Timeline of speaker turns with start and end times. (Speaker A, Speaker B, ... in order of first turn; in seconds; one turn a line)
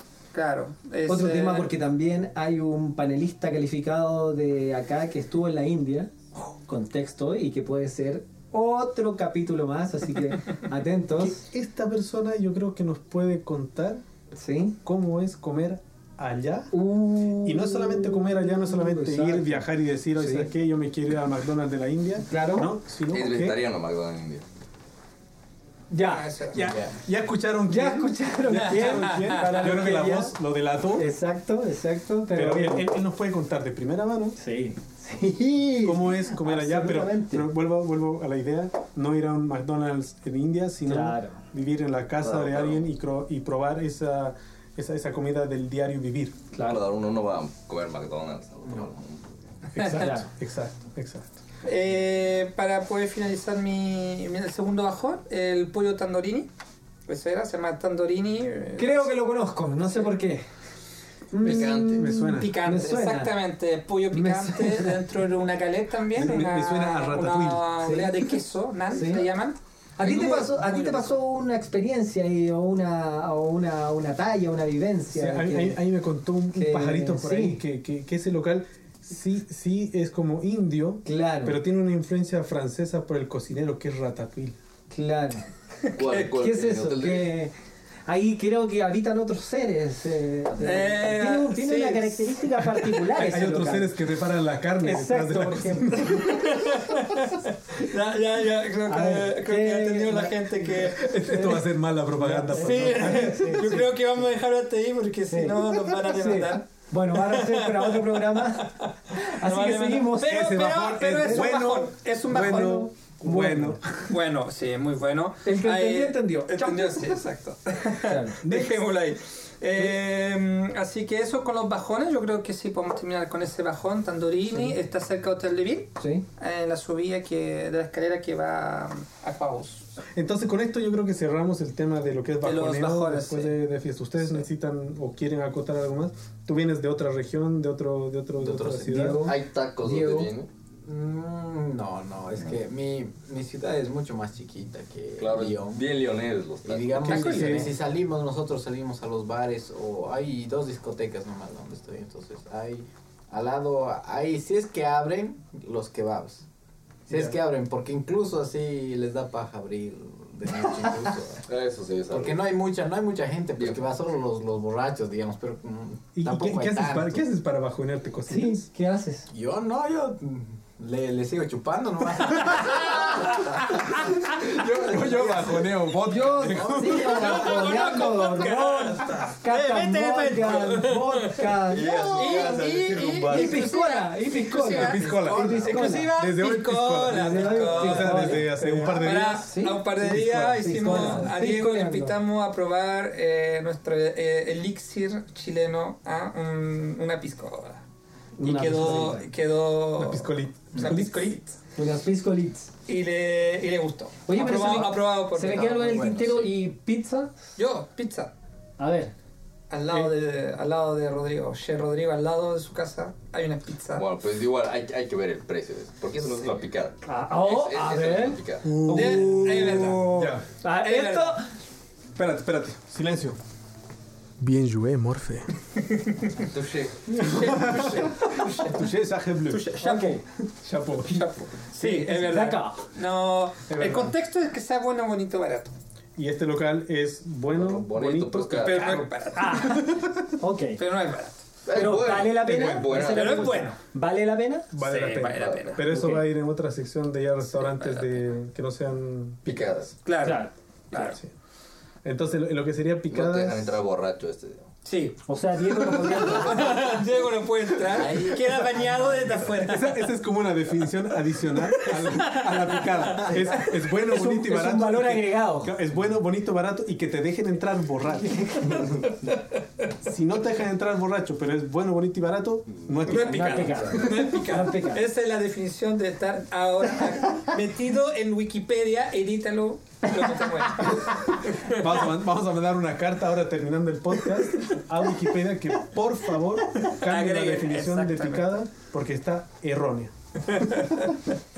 Speaker A: 0.3-1.7
Speaker B: 1.1-11.4
Speaker C: 11.2-14.0
Speaker B: 14.3-14.8
Speaker C: 14.8-23.6
Speaker B: 16.7-20.5
Speaker B: 22.3-22.8
Speaker D: 23.1-24.4
Speaker B: 25.9-26.9
Speaker A: 26.0-26.6
Speaker E: 26.5-27.0
Speaker C: 26.9-31.1
Speaker B: 27.7-30.4
Speaker A: 28.5-29.5
Speaker B: 30.9-32.9
Speaker C: 32.3-34.4
Speaker B: 34.4-37.5
Speaker C: 35.8-46.4
Speaker B: 40.9-41.4
Speaker D: 42.2-42.8
Speaker D: 46.5-49.3
Speaker B: 46.5-46.8
Speaker C: 49.7-51.4
Speaker B: 50.0-50.3
Speaker A: 51.6-56.5
Speaker A: 57.1-59.1
Speaker B: 58.8-60.5
Speaker B: 61.3-63.3
Speaker D: 61.4-62.2
Speaker C: 61.4-62.9
Speaker A: 62.3-71.1
Speaker B: 64.1-64.9
Speaker C: 66.1-67.7
Speaker B: 67.8-68.2
Speaker B: 68.9-69.2
Speaker B: 70.0-75.8
Speaker C: 75.1-84.5
Speaker B: 76.5-77.6
Speaker B: 81.0-81.6
Speaker B: 84.9-85.5
Speaker D: 86.0-87.4
Speaker B: 86.2-87.5
Speaker B: 88.0-93.9
Speaker A: 90.6-93.1
Speaker C: 93.1-96.4
Speaker B: 94.8-96.4
Speaker A: 96.1-101.1
Speaker B: 98.8-103.9
Speaker C: 100.9-103.8
Speaker A: 102.5-112.9
Speaker B: 105.2-110.5
Speaker C: 110.2-114.0
Speaker B: 111.0-111.6
Speaker B: 112.4-113.8
Speaker A: 114.1-129.9
Speaker B: 115.4-117.2
Speaker B: 118.0-118.4
Speaker C: 118.4-118.8
Speaker B: 124.5-124.8
Speaker B: 126.0-126.2
Speaker C: 130.1-139.3
Speaker A: 132.4-133.6
Speaker E: 138.4-139.1
Speaker B: 138.8-140.3
Speaker D: 139.2-140.5
Speaker E: 140.8-145.8
Speaker D: 145.2-147.4
Speaker E: 146.6-156.4
Speaker C: 146.9-147.8
Speaker A: 147.0-147.7
Speaker E: 157.1-161.4
Speaker D: 161.4-162.4
Speaker E: 162.1-167.2
Speaker D: 163.6-163.9
Speaker C: 166.1-168.7
Speaker B: 168.3-169.3
Speaker E: 169.3-176.8
Speaker C: 173.6-179.3
Speaker B: 176.0-182.6
Speaker A: 176.8-181.4
Speaker D: 181.7-183.2
Speaker C: 182.1-183.8
Speaker A: 182.1-197.8
Speaker B: 183.3-186.2
Speaker C: 184.6-191.3
Speaker E: 185.0-185.9
Speaker B: 187.1-192.2
Speaker B: 198.4-199.3
Speaker A: 198.4-201.6
Speaker C: 200.0-201.3
Speaker B: 201.7-202.7
Speaker A: 202.9-205.8
Speaker B: 204.3-207.3
Speaker D: 205.4-206.5
Speaker A: 207.6-208.3
Speaker B: 208.8-209.1
Speaker A: 209.7-214.0
Speaker D: 213.9-218.7
Speaker B: 217.0-221.4
Speaker C: 218.6-220.4
Speaker A: 218.9-220.1
Speaker A: 220.8-221.4
Speaker C: 222.1-223.4
Speaker C: 224.4-225.5
Speaker A: 226.0-226.3
Speaker D: 226.4-227.6
Speaker A: 227.2-228.7
Speaker C: 227.2-229.7
Speaker A: 229.5-230.1
Speaker B: 229.8-230.2
Speaker C: 230.6-231.3
Speaker A: 231.0-235.7
Speaker B: 231.8-232.8
Speaker C: 233.7-234.1
Speaker C: 236.2-239.0
Speaker D: 237.5-239.1
Speaker A: 238.5-240.0
Speaker B: 239.3-240.8
Speaker A: 240.8-241.4
Speaker D: 241.6-243.6
Speaker B: 241.7-244.7
Speaker C: 242.5-242.8
Speaker A: 242.9-243.8
Speaker C: 244.7-249.9
Speaker A: 244.8-245.9
Speaker D: 245.3-245.7
Speaker B: 245.9-246.3
Speaker A: 247.4-248.2
Speaker D: 249.4-249.9
Speaker A: 250.0-251.2
Speaker B: 250.2-251.1
Speaker C: 252.0-253.8
Speaker D: 253.1-254.7
Speaker A: 254.8-255.2
Speaker B: 255.2-257.0
Speaker A: 255.9-260.0
Speaker E: 257.9-259.3
Speaker C: 259.6-268.9
Speaker A: 261.8-263.7
Speaker B: 263.8-265.8
Speaker B: 268.2-268.9
Speaker C: 270.0-274.0
Speaker A: 273.1-281.8
Speaker B: 273.2-275.1
Speaker C: 281.0-290.1
Speaker A: 286.8-288.6
Speaker A: 290.5-291.2